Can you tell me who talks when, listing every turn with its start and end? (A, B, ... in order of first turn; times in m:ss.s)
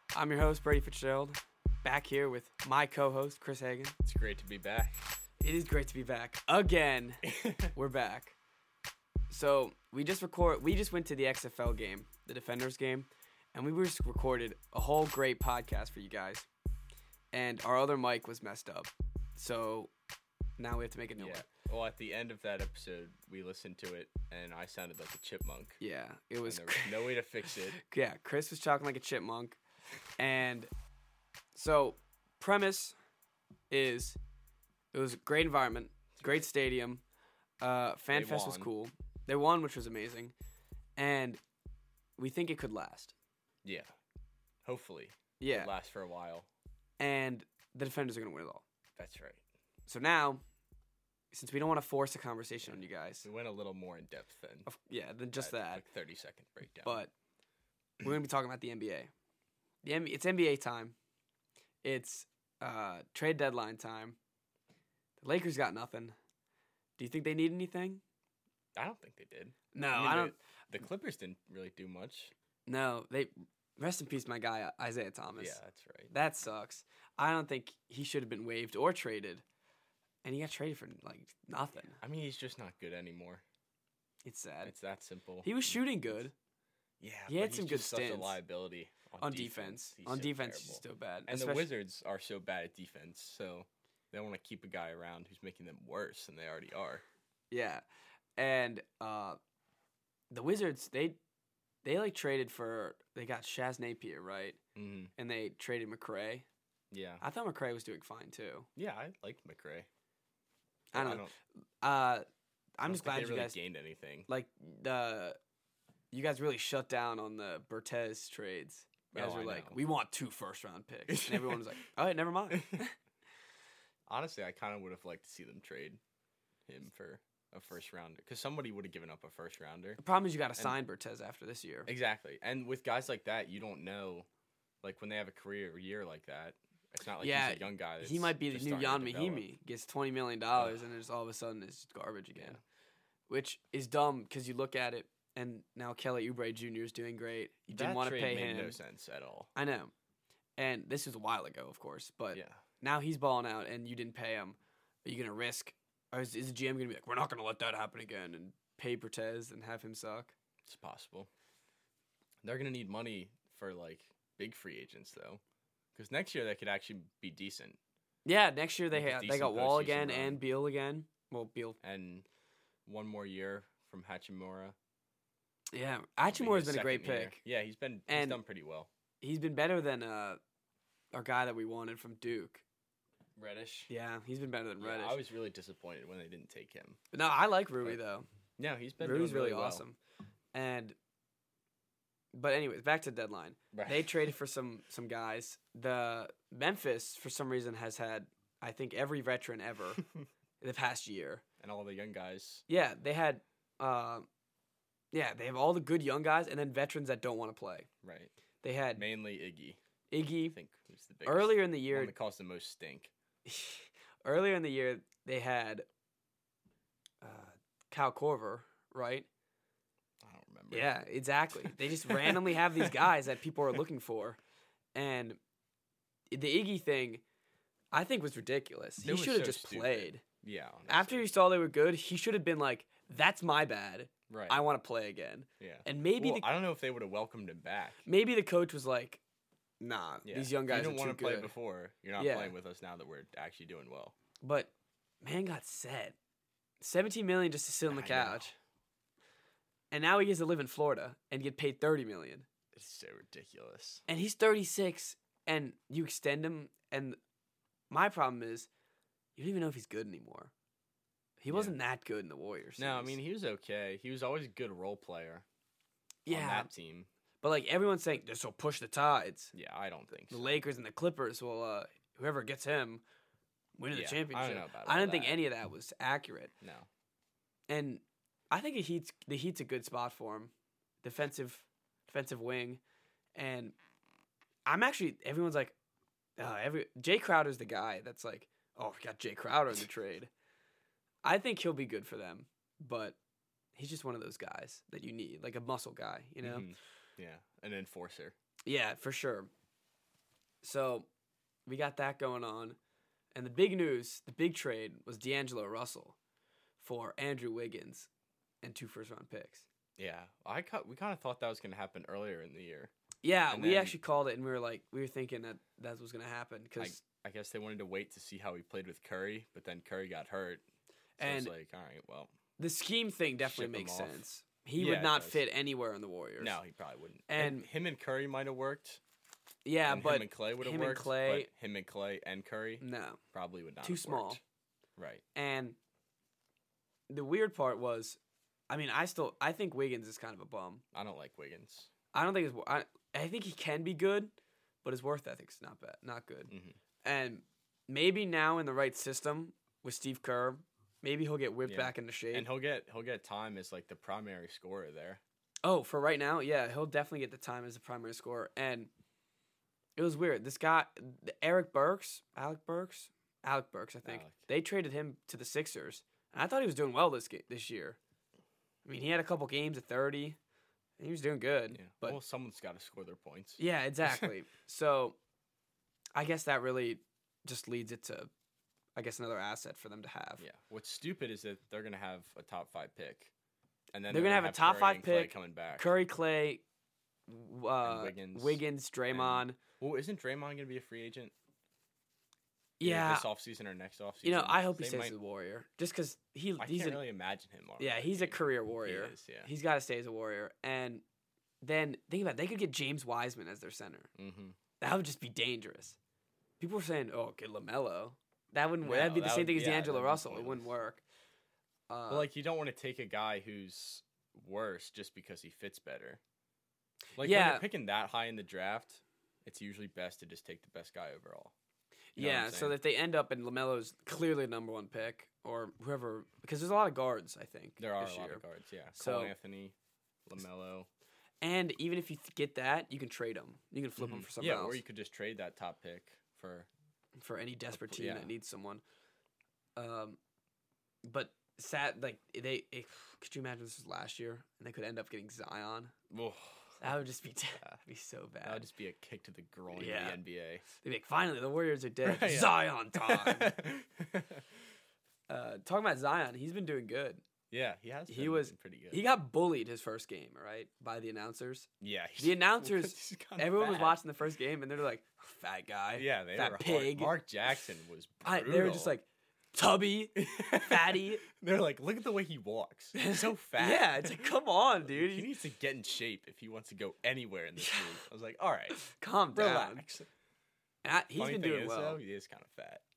0:00.1-0:04.0 A
0:04.0-0:05.0 B
0:05.4-0:08.4 A
0:07.2-0:07.7 B
0:09.3-0:16.5 A
0:17.3-0:19.9 A
0:20.6-0:21.5 A
0:21.2-0:25.8 B
0:25.8-0:29.6 A
0:26.4-0:27.8 B
0:30.2-0:30.7 A
0:31.6-0:33.0 A
0:33.7-0:34.2 A
0:34.9-0:37.0 A
0:36.1-0:36.5 B
0:37.6-0:40.3 A
0:38.1-0:38.7 B
0:41.0-0:41.4 A
0:42.2-0:43.1 A
0:43.6-0:43.9 B
0:44.6-0:46.5 B
0:45.4-0:45.7 A
0:47.0-0:48.6 A
0:49.0-0:49.4 B
0:49.9-0:50.4 A
0:51.3-0:53.3 A
0:52.6-0:54.7 B
0:54.7-0:55.8 A
0:55.4-0:57.0 B
0:56.8-0:57.1 A
0:58.0-0:59.1 A
0:59.8-1:01.0 A
1:01.8-1:04.2 A
1:05.2-1:06.2 A
1:07.0-1:08.0 A
1:08.8-1:12.3 B
1:09.7-1:10.3 A
1:12.7-1:15.6 A
1:15.4-1:16.1 B
1:16.1-1:19.4 A
1:20.2-1:22.0 A
1:22.0-1:23.4 B
1:24.2-1:24.7 A
1:24.6-1:25.8 B
1:25.4-1:26.3 A
1:27.0-1:37.0 B
1:27.3-1:28.4 A
1:29.2-1:31.7 A
1:37.5-1:37.8 A
1:38.4-1:39.4 A
1:40.3-1:41.2 A
1:41.8-1:44.6 A
1:44.8-1:45.1 B
1:45.2-1:46.5 A
1:46.9-1:47.2 B
1:47.2-1:48.7 A
1:48.8-1:49.9 B
1:50.9-1:51.3 A
1:51.0-1:51.3 B
1:51.8-1:52.3 A
1:52.8-1:53.6 A
1:52.9-1:54.3 B
1:54.3-1:55.4 A
1:56.1-2:03.0 A
1:59.1-1:59.8 B
2:01.1-2:01.6 B
2:02.5-2:02.8 B
2:04.1-2:06.0 B
2:06.7-2:10.0 B
2:10.0-2:11.9 A
2:11.9-2:14.3 B
2:14.8-2:19.5 B
2:17.2-2:22.6 A
2:22.4-2:22.6 B
2:23.3-2:28.8 A
2:27.7-2:29.5 B
2:29.6-2:29.9 A
2:30.6-2:40.3 A
2:32.3-2:32.6 B
2:40.6-2:41.3 B
2:42.4-2:45.4 B
2:45.9-2:47.8 B
2:48.2-2:51.8 A
2:48.9-2:50.4 B
2:51.8-2:52.3 B
2:52.9-2:54.8 B
2:55.7-2:57.4 A
2:56.3-2:58.9 B
2:58.1-2:58.4 A
2:59.2-3:00.4 A
3:01.1-3:02.6 A
3:03.4-3:03.9 B
3:03.9-3:05.2 A
3:04.8-3:07.0 B
3:07.1-3:08.3 A
3:08.6-3:09.8 B
3:09.0-3:10.0 A
3:10.5-3:11.0 A
3:12.3-3:20.0 A
3:13.7-3:14.3 B
3:20.6-3:21.4 A
3:21.6-3:22.6 B
3:22.7-3:24.3 A
3:25.1-3:27.9 A
3:28.0-3:28.3 B
3:28.6-3:29.1 A
3:29.0-3:29.8 B
3:30.1-3:30.6 A
3:30.5-3:33.1 B
3:31.3-3:32.1 A
3:33.5-3:35.9 A
3:37.2-3:39.3 A
3:40.2-3:41.0 B
3:40.7-3:44.4 A
3:41.6-3:43.1 B
3:45.0-3:45.4 A
3:46.3-3:47.2 A
3:47.9-3:50.2 A
3:49.0-3:51.2 B
3:50.9-3:56.5 A
3:54.3-3:54.6 B
3:55.6-3:58.0 B
3:58.0-3:59.2 A
3:59.8-4:01.5 A
4:00.2-4:04.2 B
4:02.2-4:02.6 A
4:04.4-4:04.7 A
4:05.2-4:06.2 A
4:06.8-4:08.6 A
4:07.9-4:08.5 B
4:09.9-4:12.5 A
4:12.7-4:14.0 B
4:14.1-4:17.2 A
4:17.9-4:18.7 A
4:19.4-4:20.5 A
4:21.4-4:23.2 A
4:21.5-4:21.8 B
4:22.8-4:25.5 B
4:26.3-4:26.7 A
4:26.3-4:27.1 B
4:27.4-4:29.5 A
4:29.5-4:30.6 B
4:30.3-4:33.0 A
4:33.8-4:36.5 A
4:33.9-4:35.4 B
4:36.6-4:36.9 B
4:37.7-4:40.5 A
4:41.0-4:42.8 A
4:43.4-4:43.8 A
4:44.7-4:45.8 A
4:46.4-4:50.3 A
4:51.2-4:53.2 A
4:53.8-4:56.7 A
4:56.4-4:58.4 B
4:58.7-4:59.5 A
5:00.6-5:01.1 A
5:01.7-5:02.8 A
5:03.3-5:06.2 A
5:06.8-5:08.1 A
5:08.6-5:09.7 A
5:10.0-5:12.9 B
5:13.2-5:17.0 A
5:13.5-5:14.0 B
5:16.8-5:20.6 B
5:21.2-5:22.3 B
5:21.2-5:21.5 A
5:22.6-5:26.6 A
5:23.4-5:24.2 B
5:24.8-5:25.4 B
5:26.4-5:29.0 B
5:27.3-5:27.7 A
5:29.7-5:31.5 A
5:29.9-5:34.4 B
5:32.8-5:33.2 A
5:33.8-5:34.4 A
5:35.0-5:35.2 B
5:35.4-5:35.8 A
5:37.1-5:38.2 A
5:38.7-5:40.8 A
5:40.9-5:41.9 B
5:42.1-5:44.3 A
5:44.8-5:46.5 A
5:46.5-5:46.8 B
5:47.0-5:52.5 A
5:51.6-5:55.2 B
5:55.6-5:58.9 A
6:00.0-6:08.0 A
6:04.0-6:04.4 B
6:08.8-6:10.4 A
6:11.0-6:12.2 A
6:11.7-6:14.3 B
6:13.6-6:15.2 A
6:16.2-6:18.3 A
6:19.0-6:20.4 A
6:20.4-6:23.3 B
6:23.9-6:25.9 B
6:24.1-6:26.6 A
6:27.3-6:29.6 A
6:27.8-6:31.3 B
6:32.8-6:33.3 A
6:32.8-6:35.2 B
6:34.2-6:37.0 A
6:36.6-6:39.5 B
6:37.8-6:41.0 A
6:41.6-6:44.1 A
6:44.2-6:44.6 B
6:44.8-6:46.0 A
6:46.6-6:51.0 A
6:48.8-6:50.7 B
6:51.9-6:52.3 A
6:52.1-6:56.2 B
6:57.2-7:01.5 B
6:57.2-6:57.6 A
7:02.2-7:08.4 A
7:02.2-7:02.8 B
7:07.8-7:10.9 B
7:09.0-7:09.3 A
7:11.4-7:14.8 A
7:14.0-7:16.7 B
7:17.2-7:18.8 A
7:17.7-7:18.3 B
7:19.8-7:20.2 A
7:21.0-7:25.9 A
7:26.1-7:26.8 B
7:26.8-7:28.7 A
7:28.4-7:30.6 B
7:29.7-7:33.5 A
7:32.0-7:34.4 B
7:35.3-7:37.2 A
7:37.5-7:39.0 B
7:38.1-7:47.1 A
7:41.8-7:44.0 B
7:46.0-7:49.0 B
7:48.2-7:51.2 A
7:50.2-7:54.3 B
7:53.0-7:55.3 A
7:54.8-7:58.8 B
7:57.6-7:57.9 A
7:58.7-7:59.8 A
7:59.3-8:00.1 B
8:00.8-8:02.0 A
8:01.2-8:02.8 B